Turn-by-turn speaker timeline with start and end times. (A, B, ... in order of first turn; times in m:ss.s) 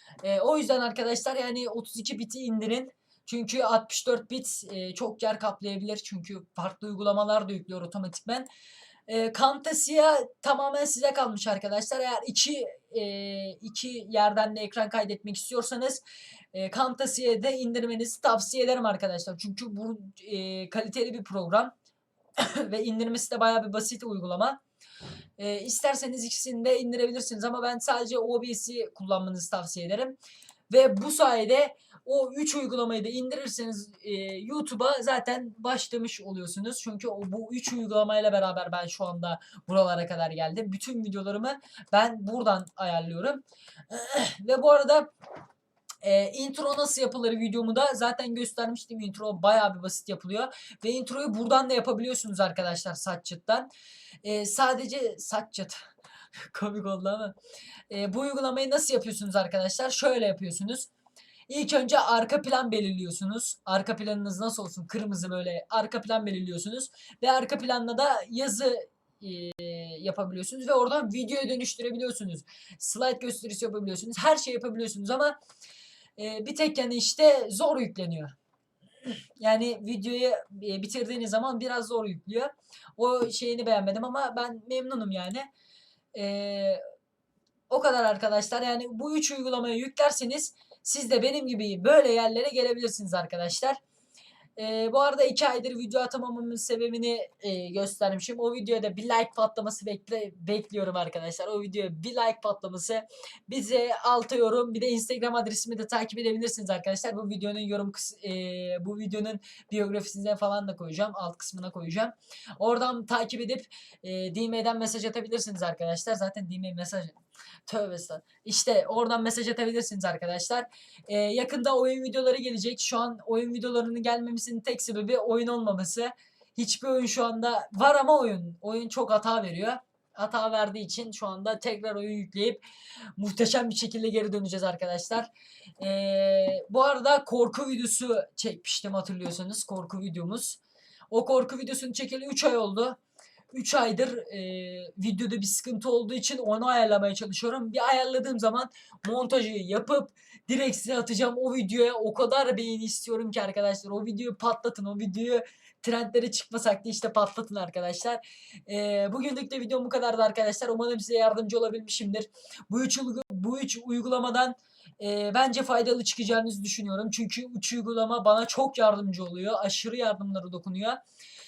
0:00.2-0:08.5 A
0:09.1-0:16.0 A
0:16.5-0:21.7 A
0:22.4-0:24.6 A
0:25.4-0:30.2 A
0:30.7-0:45.1 A
0:46.0-0:53.7 A
0:54.2-0:55.9 A
0:56.5-0:57.3 A
0:57.9-1:00.9 A
1:01.5-1:15.4 A
1:16.2-1:18.3 A
1:19.4-1:25.5 A
1:26.1-1:26.8 A
1:27.7-1:33.8 A
1:34.6-2:12.6 A
2:13.2-2:20.6 A
2:21.1-2:23.0 A
2:23.5-2:51.0 A